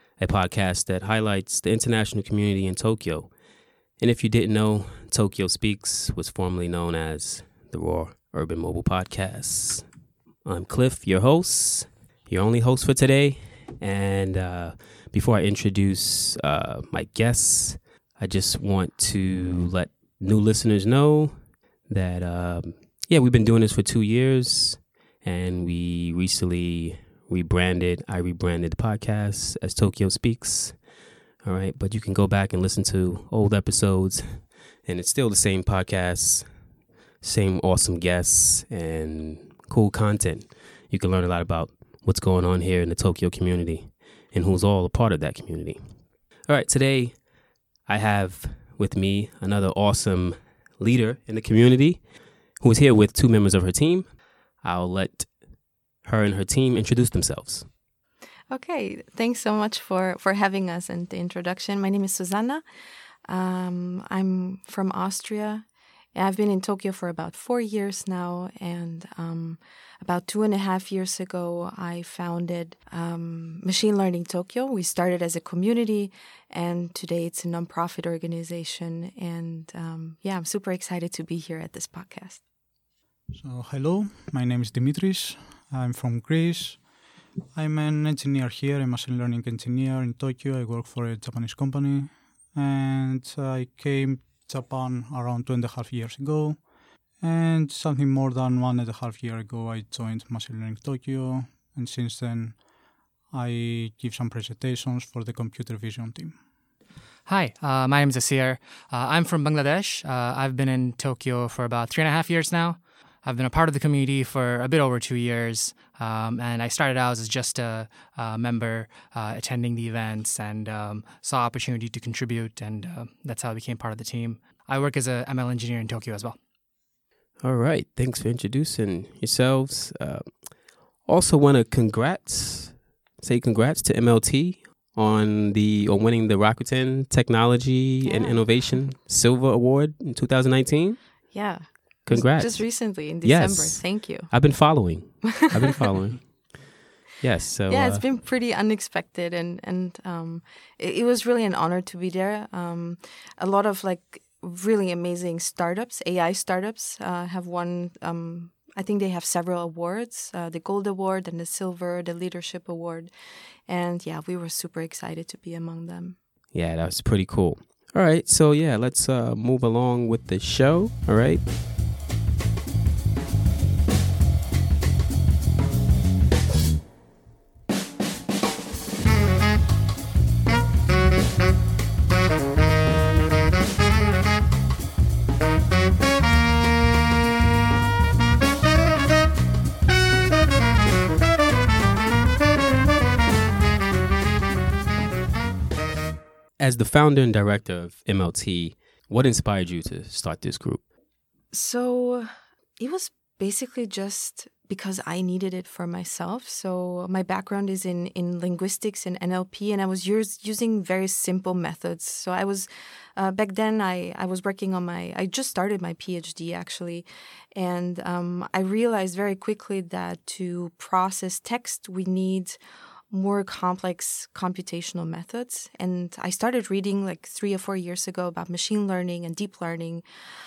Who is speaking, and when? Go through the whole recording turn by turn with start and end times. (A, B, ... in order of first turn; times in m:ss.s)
0:00.2-0:03.3 A
0:04.0-0:09.8 A
0:10.4-0:30.8 A
0:31.4-0:36.5 A
0:37.2-0:47.3 A
0:47.8-0:55.5 A
0:56.0-0:57.7 A
0:58.5-1:02.6 B
1:03.2-1:22.4 B
1:23.3-1:26.8 C
1:27.5-1:36.7 C
1:37.2-1:42.6 C
1:43.3-1:46.4 C
1:47.2-2:06.4 D
2:07.4-2:21.3 A
2:18.0-2:18.7 B
2:21.3-2:24.3 B
2:22.0-2:26.6 A
2:27.2-2:28.0 A
2:27.7-2:43.1 B
2:43.7-2:46.2 B
2:46.5-2:51.4 A
3:16.6-3:20.8 A
3:21.5-3:42.6 B
3:43.1-3:50.0 B